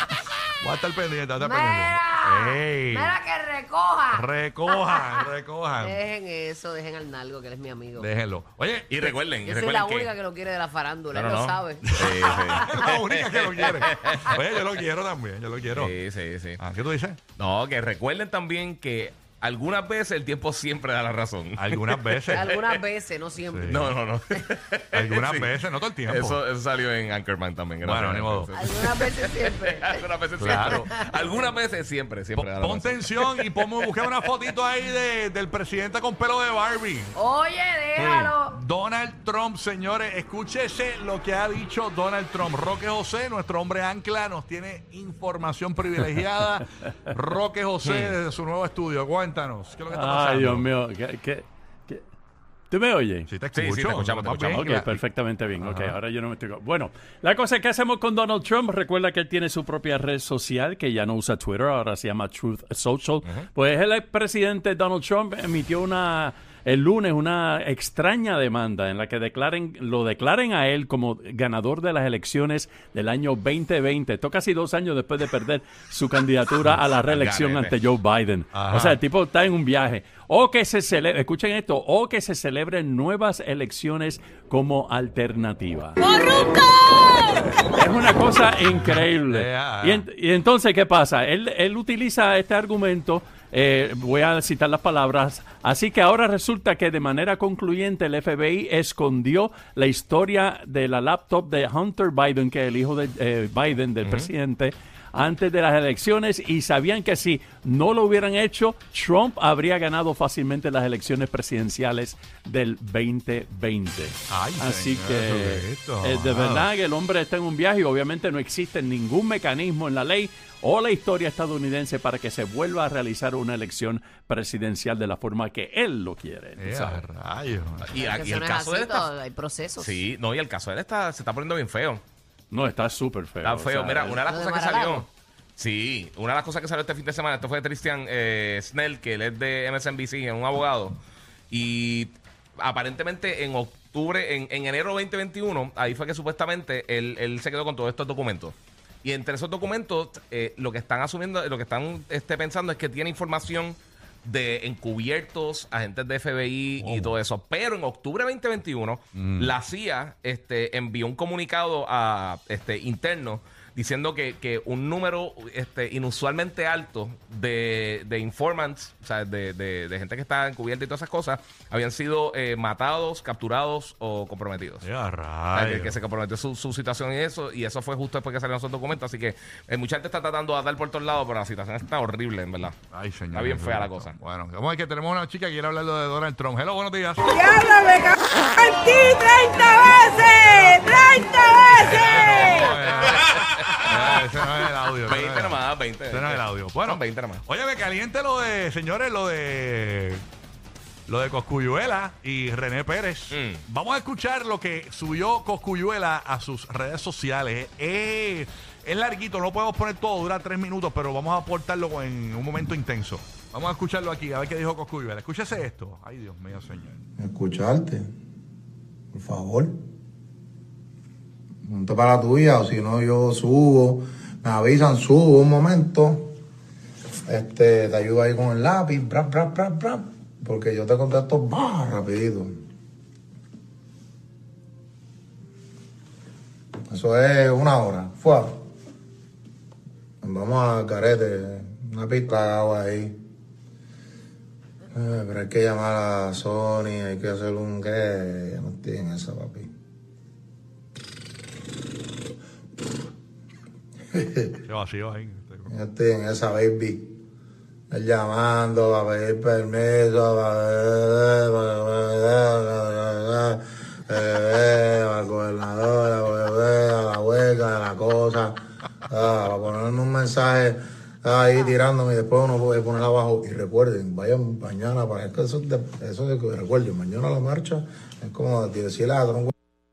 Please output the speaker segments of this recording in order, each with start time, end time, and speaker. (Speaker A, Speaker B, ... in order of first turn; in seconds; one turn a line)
Speaker A: 0.6-3.1
Speaker B: 1.4-5.2
Speaker A: 4.1-6.0
Speaker B: 5.8-8.1
Speaker A: 8.0-9.2
Speaker C: 8.9-10.1
Speaker B: 9.4-12.9
Speaker C: 11.1-14.6
Speaker A: 11.9-15.9
Speaker C: 15.7-16.6
Speaker A: 16.6-17.2
Speaker C: 17.4-22.6
Speaker A: 21.6-22.5
Speaker B: 22.3-24.4
Speaker A: 23.5-23.9
Speaker C: 23.7-25.5
Speaker A: 24.9-26.4
Speaker C: 26.1-34.1
Speaker A: 27.8-28.5
Speaker B: 28.6-31.5
Speaker A: 30.4-30.8
Speaker A: 32.4-37.1
Speaker B: 37.1-38.6
Speaker C: 38.0-38.3
Speaker A: 38.5-50.6
Speaker C: 47.8-48.1
Speaker D: 49.9-52.0
Speaker D: 52.7-53.3
Speaker A: 53.3-55.0
Speaker C: 53.5-54.7
Speaker D: 54.5-86.0
Speaker A: 55.6-56.0
Speaker C: 77.0-77.7
Speaker A: 78.5-79.0
Speaker E: 86.0-86.6
Speaker D: 87.7-127.0
Speaker A: 88.7-90.0
Speaker C: 104.0-104.3
Speaker A: 114.3-116.7
Speaker A: 126.6-127.9
Speaker C: 127.9-129.1
Speaker B: 127.9-130.0
Speaker C: 129.8-132.0
Speaker D: 132.5-134.2
Speaker C: 133.4-141.0
Speaker B: 134.3-135.1
Speaker C: 141.5-174.8
Speaker A: 156.8-157.2
Speaker A: 159.1-159.5
Speaker A: 174.8-176.0
Speaker C: 175.5-182.8
Speaker A: 182.9-187.3
Speaker C: 183.3-184.1
Speaker E: 187.2-192.8
Speaker A: 191.7-200.2
Speaker C: 191.8-197.4
Speaker A: 201.1-217.0
Speaker C: 203.3-203.6
Speaker F: 217.2-218.1
Speaker F: 219.1-219.8
Speaker F: 221.6-226.4
Speaker F: 227.3-232.6
Speaker F: 236.9-238.6
Speaker F: 240.2-243.2
Speaker F: 244.9-249.7
Speaker F: 254.1-254.6
Speaker A: 254.6-255.7
Speaker F: 255.7-257.2
Speaker F: 257.9-279.5